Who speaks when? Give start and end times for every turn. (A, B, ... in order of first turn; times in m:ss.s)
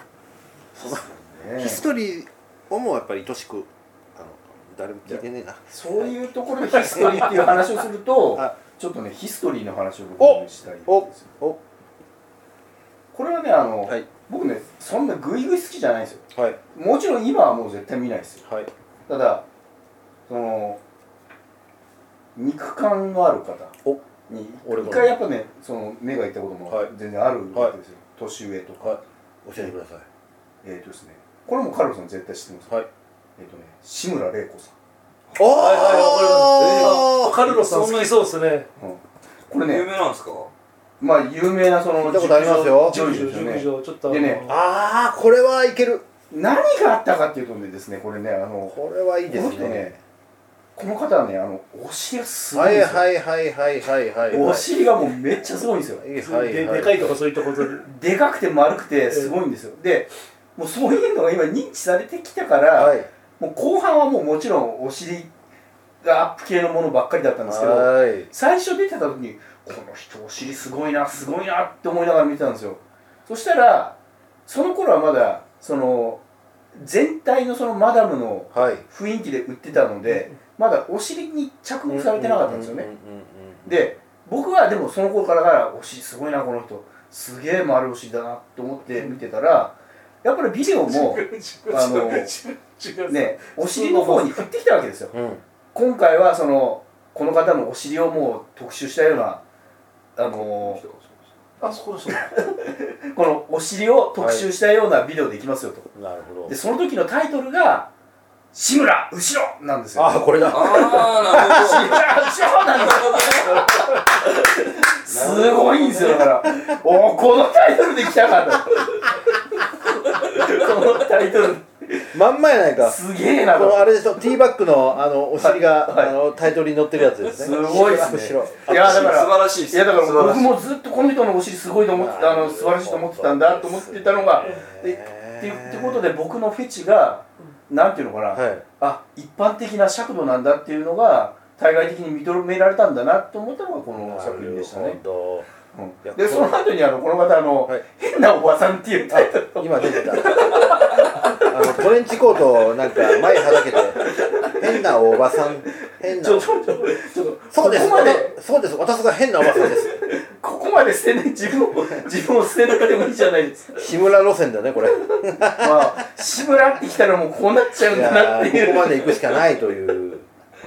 0:00.7-0:01.1 A
0:00.8-0:01.8 B
0:01.6-0:07.7 A
0:05.0-0:11.3 B
0:10.2-0:11.6 A
0:13.1-0:18.4 B
0:16.3-0:16.6 A
0:18.4-0:18.7 A
0:19.1-0:19.4 B
0:20.3-0:20.8 B
0:22.4-0:23.7 B
0:24.3-0:29.0 B
0:24.6-0:25.2 A
0:28.8-0:30.0 A
0:30.6-0:32.8 B
0:33.4-0:34.7 B
0:35.4-0:37.4 A
0:35.5-0:38.7 C
0:36.5-0:38.3 D
0:38.8-0:39.9 B
0:39.6-0:40.5 D
0:41.0-0:44.4 B
0:42.0-0:43.2 A
0:42.7-0:44.6 C
0:44.4-0:46.1 A
0:46.3-0:49.9 B
0:48.7-0:50.0 A
0:50.8-0:53.0 B
0:52.5-0:54.7 A
0:54.3-0:56.0 B
0:56.0-0:57.2 A
0:56.2-0:57.9 C
0:57.8-1:05.3 B
0:59.1-0:59.4 C
1:02.7-1:03.1 A
1:06.0-1:16.2 B
1:07.4-1:08.3 A
1:16.7-1:22.9 B
1:18.5-1:18.8 A
1:21.9-1:23.8 A
1:23.6-1:32.3 B
1:30.8-1:34.4 C
1:33.1-1:35.1 B
1:35.1-1:35.4 A
1:35.7-1:39.4 B
1:40.2-1:40.8 B
1:40.3-1:41.4 D
1:41.6-1:42.3 C
1:42.1-1:45.9 B
1:44.2-1:44.4 A
1:45.9-1:46.5 A
1:46.5-1:47.9 B
1:48.5-2:02.1 B
1:49.9-1:52.0 A
1:50.4-1:54.0 D
1:55.1-1:56.3 D
2:02.1-2:09.1 A
2:02.8-2:04.0 B
2:05.4-2:06.1 B
2:07.3-2:25.0 B
2:08.6-2:10.6 D
2:11.9-2:16.1 A
2:18.3-2:18.6 A
2:23.9-2:25.5 A
2:25.7-2:31.9 B
2:26.0-2:26.6 A
2:29.1-2:36.5 A
2:32.9-2:38.4 B
2:37.5-2:40.0 A
2:39.5-2:43.8 B
2:43.8-2:46.0 A
2:45.1-2:49.4 B
2:47.8-2:50.3 A